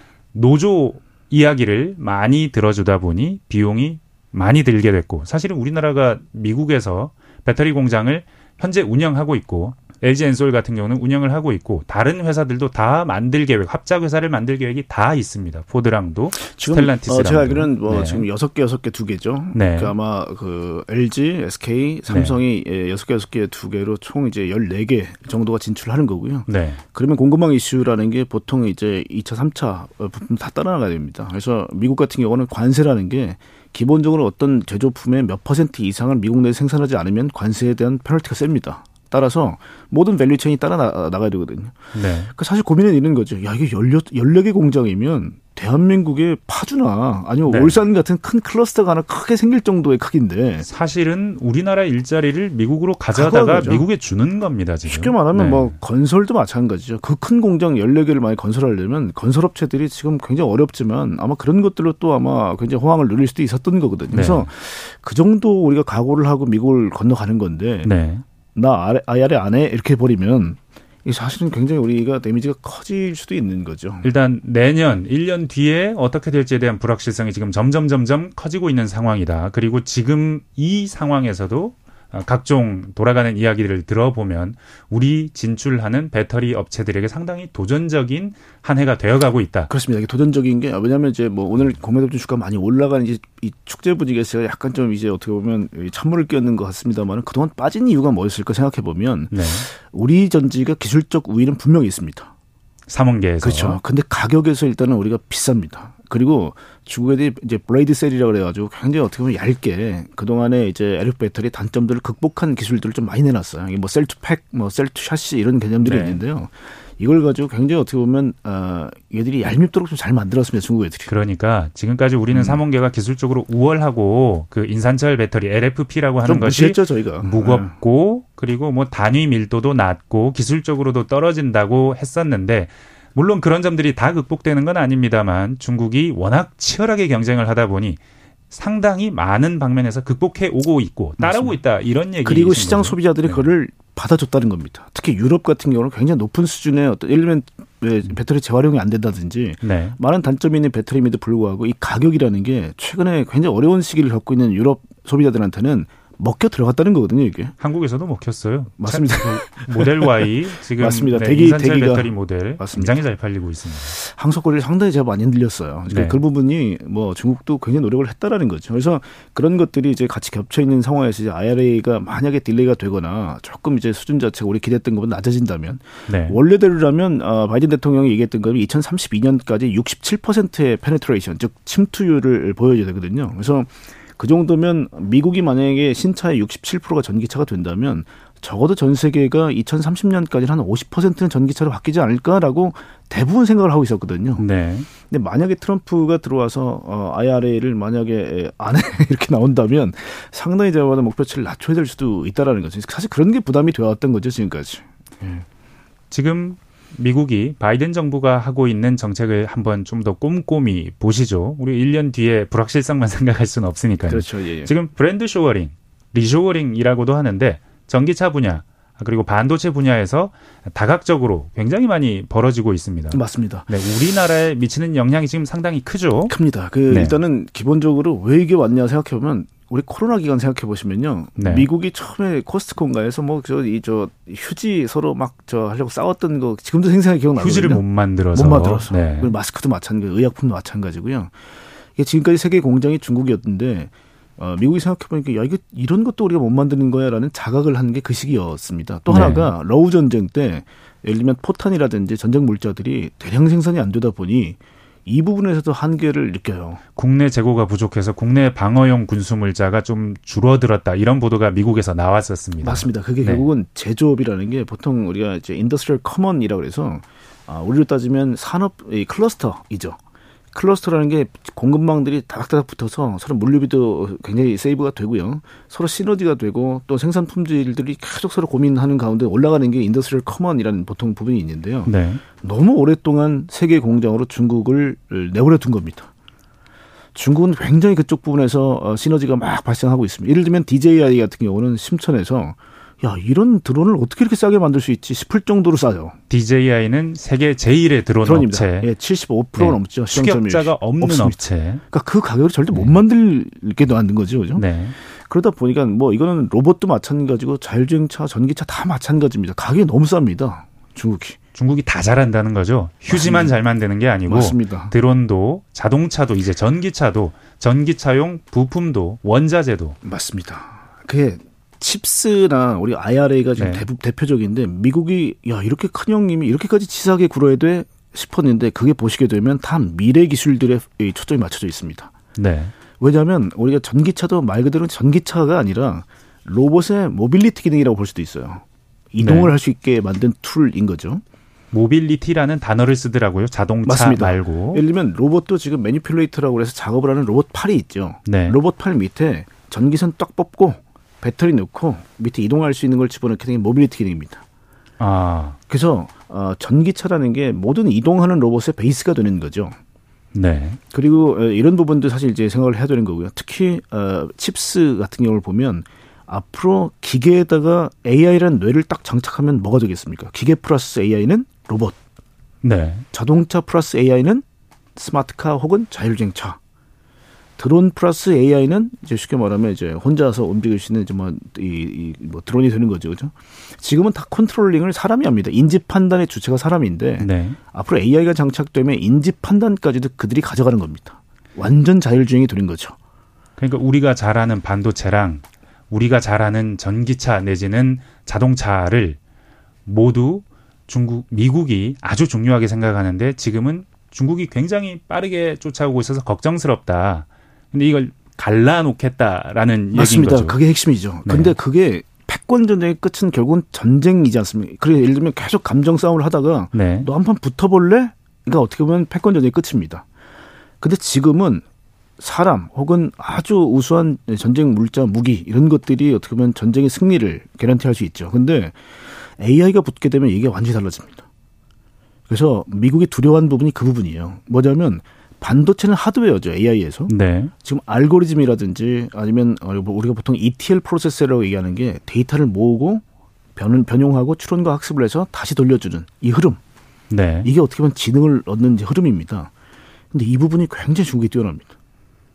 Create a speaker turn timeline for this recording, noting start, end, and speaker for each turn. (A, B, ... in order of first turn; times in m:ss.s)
0:00.3-0:18.3 A
0:16.4-0:41.8 B
0:19.5-0:20.0 A
0:22.1-0:22.4 A
0:26.5-0:26.8 A
0:41.9-0:42.3 A
0:42.3-0:50.7 B
0:47.5-0:47.8 A
0:50.6-0:55.8 A
0:53.1-0:53.9 B
0:54.9-1:07.9 B
1:04.1-1:04.5 A
1:07.8-1:08.2 A
1:08.6-1:14.1 B
1:14.0-1:29.7 A
1:29.7-1:42.3 B
1:39.3-1:39.7 A
1:42.9-1:43.8 A
1:43.4-2:01.1 B
1:55.8-1:56.2 A
2:01.1-2:18.0 A
2:02.3-2:02.6 B
2:06.2-2:07.7 B
2:18.5-2:23.5 A
2:21.2-2:21.6 B
2:22.2-2:37.5 B
2:29.6-2:30.0 A
2:37.6-2:43.9 A
2:38.8-2:43.0 B
2:43.9-3:25.5 B
2:45.9-2:46.2 A
2:56.1-2:56.4 A
3:14.4-3:14.9 A
3:26.1-3:46.4 A
3:34.1-3:34.7 B
3:43.1-3:43.7 B
3:46.3-4:01.3 B
3:46.9-3:47.2 A
3:51.4-3:51.7 A
3:57.4-3:59.3 A
4:02.0-4:16.8 B
4:09.1-4:09.5 A
4:17.0-4:23.5 A
4:22.6-4:30.0 B
4:30.5-4:46.1 B
4:41.9-4:42.2 A
4:47.2-4:56.2 B
4:56.3-4:58.9 A
4:58.2-5:04.6 B
4:59.6-5:01.8 A
5:04.6-5:05.0 A
5:05.2-5:11.4 B
5:11.6-5:20.0 A
5:13.1-5:13.5 B
5:14.3-5:14.9 B
5:20.0-5:32.1 B
5:23.6-5:23.8 A
5:32.4-5:32.7 A
5:33.0-5:41.2 B
5:39.2-5:39.5 A
5:41.7-5:44.8 A
5:43.8-5:54.4 B
5:48.3-5:48.6 A
5:55.0-5:55.6 A
5:55.7-5:59.8 B
6:00.3-6:00.8 A
6:00.9-6:12.0 B
6:12.6-6:13.0 A
6:13.1-6:14.4 B
6:15.0-6:16.6 B
6:17.6-6:33.0 B
6:27.2-6:27.6 A
6:33.6-6:39.2 A
6:39.9-6:50.6 A
6:49.9-7:00.0 B
6:51.3-6:51.6 A
6:56.7-6:57.1 A
7:00.8-7:01.6 B
7:02.2-7:08.8 B
7:09.4-7:11.2 B
7:12.3-7:17.1 B
7:17.1-7:17.5 A
7:17.6-7:23.0 B
7:23.6-7:26.6 B
7:27.1-7:27.5 A
7:27.4-7:29.5 B
7:30.1-7:31.7 B